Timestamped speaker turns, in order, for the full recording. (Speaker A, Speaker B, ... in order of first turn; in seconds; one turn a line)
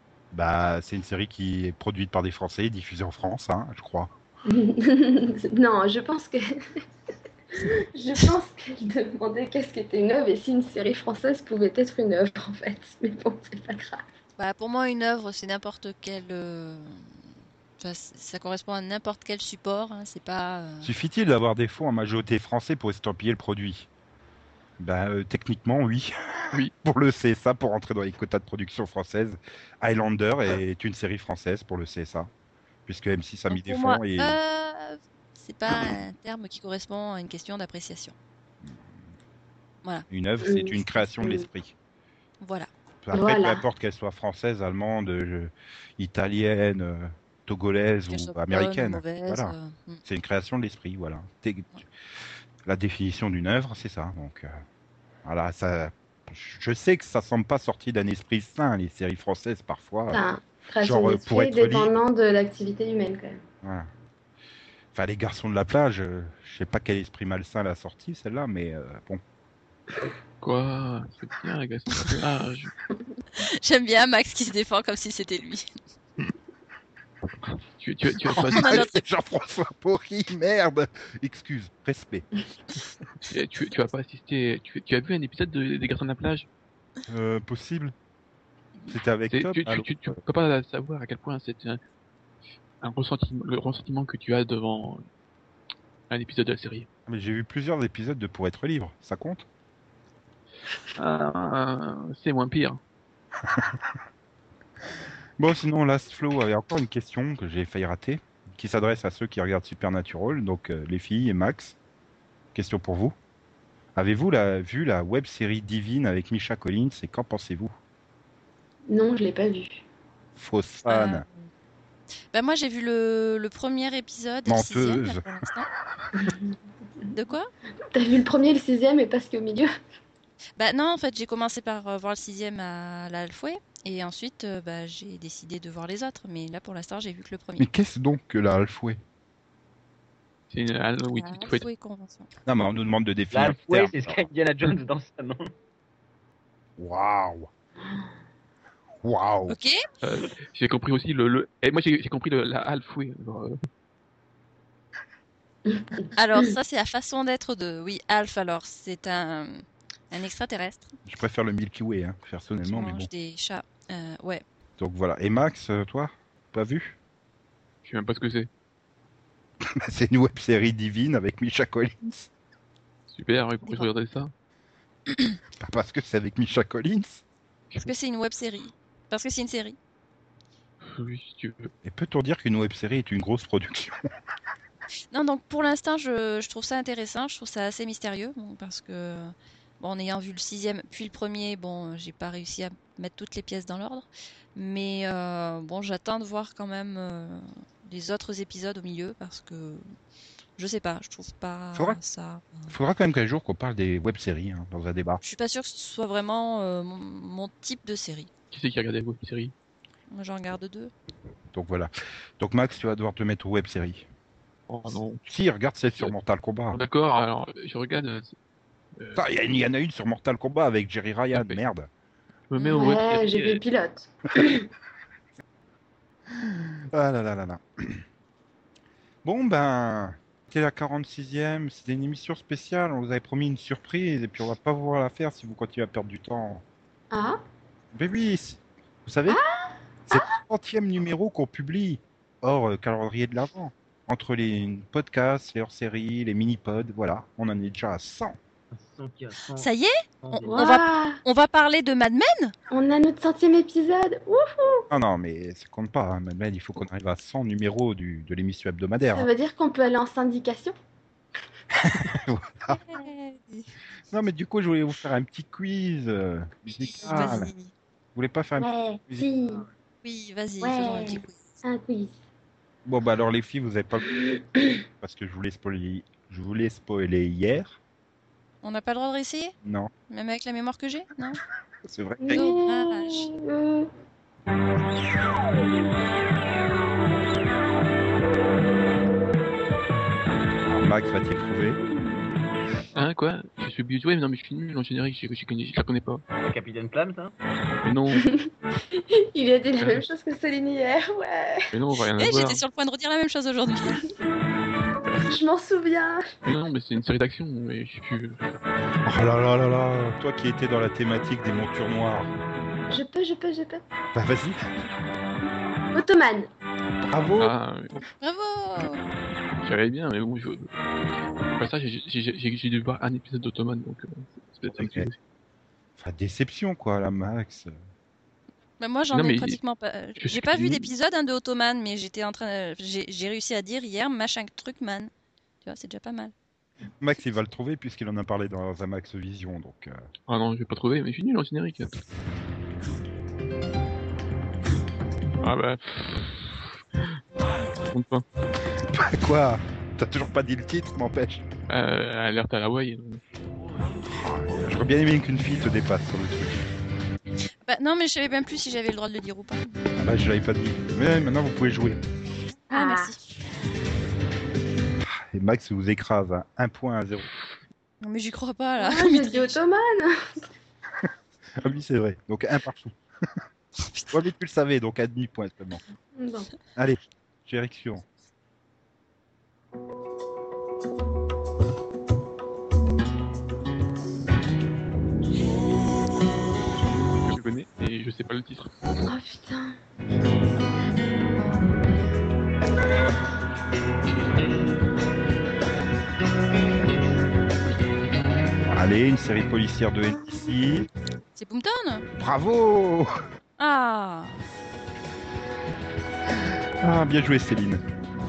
Speaker A: 0.3-4.1
Speaker B: 4.5-6.5
Speaker B: 7.6-14.0
Speaker C: 14.4-17.0
Speaker C: 17.8-20.9
Speaker A: 20.8-23.9
Speaker A: 24.8-32.3
Speaker A: 32.9-34.4
Speaker C: 33.5-38.1
Speaker A: 40.1-41.7
Speaker B: 40.4-41.5
Speaker C: 42.4-42.7
Speaker A: 43.0-51.7
Speaker B: 43.1-43.6
Speaker C: 48.1-50.0
Speaker A: 52.7-54.6
Speaker A: 55.2-60.2
Speaker B: 60.1-63.4
Speaker A: 60.8-61.9
Speaker A: 63.6-63.9
Speaker A: 64.9-69.2
Speaker D: 70.4-72.7
Speaker C: 73.5-75.7
Speaker D: 77.8-78.8
Speaker A: 78.3-82.3
Speaker C: 78.5-79.0
Speaker D: 83.3-86.5
Speaker A: 87.1-87.9
Speaker A: 88.9-89.9
Speaker D: 89.3-91.8
Speaker D: 92.8-95.0
Speaker D: 96.1-96.9
Speaker A: 97.1-99.5
Speaker D: 101.0-102.8
Speaker A: 103.4-103.8
Speaker A: 105.4-111.8
Speaker A: 112.5-113.1
Speaker A: 114.0-117.7
Speaker B: 118.9-119.8
Speaker A: 120.4-121.2
Speaker C: 120.9-121.5
Speaker C: 122.3-125.7
Speaker A: 124.5-125.3
Speaker B: 126.2-126.5
Speaker C: 127.1-127.5
Speaker B: 127.9-129.7
Speaker C: 130.6-137.7
Speaker A: 137.6-139.0
Speaker D: 140.5-141.7
Speaker C: 141.1-142.3
Speaker A: 142.4-144.2
Speaker E: 143.3-145.5
Speaker A: 146.8-147.5
Speaker A: 149.0-149.6
Speaker C: 149.5-149.8
Speaker D: 150.0-153.6
Speaker B: 155.7-156.0
Speaker C: 156.1-160.9
Speaker A: 161.1-163.1
Speaker C: 162.7-164.4
Speaker A: 164.8-166.9
Speaker D: 167.8-168.5
Speaker A: 169.7-172.3
Speaker D: 173.1-174.3
Speaker A: 175.6-177.2
Speaker C: 177.8-179.8
Speaker D: 180.8-181.7
Speaker A: 181.8-184.0
Speaker C: 185.1-199.9
Speaker C: 200.6-202.7
Speaker A: 201.7-202.0
Speaker A: 202.7-205.2
Speaker C: 205.2-208.3
Speaker D: 208.5-209.5
Speaker C: 210.1-210.9
Speaker A: 211.5-214.1
Speaker D: 214.7-215.2
Speaker A: 215.2-216.8
Speaker D: 216.7-218.4
Speaker D: 219.0-219.2
Speaker A: 219.1-221.9
Speaker D: 221.3-221.6
Speaker D: 222.5-223.6
Speaker C: 222.6-222.9
Speaker B: 222.7-224.7
Speaker A: 226.3-228.0
Speaker A: 229.2-236.6
Speaker B: 237.1-237.4
Speaker A: 237.9-239.4
Speaker B: 239.3-240.3
Speaker A: 240.1-248.4
Speaker E: 248.7-249.7
Speaker C: 249.5-252.5
Speaker E: 250.2-250.7
Speaker B: 250.5-251.2
Speaker B: 252.7-254.9
Speaker A: 254.9-259.3
Speaker B: 259.1-260.7
Speaker A: 261.7-262.8
Speaker C: 262.7-263.7
Speaker A: 264.1-267.5
Speaker C: 266.7-267.7
Speaker A: 268.1-269.3
Speaker B: 268.6-269.7
Speaker C: 270.0-271.6
Speaker B: 270.6-272.1
Speaker A: 272.8-274.2
Speaker B: 274.2-274.8
Speaker A: 275.0-277.8
Speaker C: 278.6-279.5
Speaker A: 279.6-279.9
Speaker C: 280.1-281.4
Speaker A: 281.8-282.6
Speaker B: 282.2-283.9
Speaker C: 282.3-283.3
Speaker A: 290.7-291.8
Speaker D: 292.9-296.2
Speaker E: 296.4-297.3
Speaker D: 297.8-298.3
Speaker B: 298.1-301.6
Speaker D: 299.8-300.0
Speaker D: 301.7-302.6
Speaker C: 302.2-304.0
Speaker B: 305.2-306.2
Speaker D: 306.4-308.4
Speaker A: 309.0-312.3
Speaker B: 312.9-313.8
Speaker A: 314.1-314.6
Speaker B: 315.9-316.5
Speaker A: 317.0-317.5
Speaker D: 317.4-318.1
Speaker C: 318.2-319.0
Speaker D: 319.6-320.7
Speaker D: 321.5-325.2
Speaker A: 324.7-325.1
Speaker A: 326.0-327.8
Speaker C: 328.8-335.1
Speaker D: 329.1-329.6
Speaker D: 330.2-330.9
Speaker C: 335.6-336.3
Speaker A: 337.0-340.0
Speaker D: 340.3-342.0
Speaker D: 345.4-347.2
Speaker D: 347.9-348.2
Speaker A: 348.9-351.5
Speaker D: 351.7-353.2
Speaker A: 354.0-356.6
Speaker C: 357.7-359.8
Speaker A: 360.0-362.0
Speaker B: 362.7-363.1
Speaker C: 362.7-363.2
Speaker A: 365.0-367.3
Speaker C: 368.0-369.6
Speaker B: 368.8-370.4
Speaker A: 371.0-373.4
Speaker A: 374.1-375.8
Speaker B: 376.2-376.5
Speaker A: 376.8-378.0
Speaker D: 387.2-388.7
Speaker B: 389.0-389.8
Speaker A: 398.7-400.9
Speaker C: 401.4-402.0
Speaker A: 402.2-403.1
Speaker C: 403.6-404.4
Speaker A: 406.8-407.8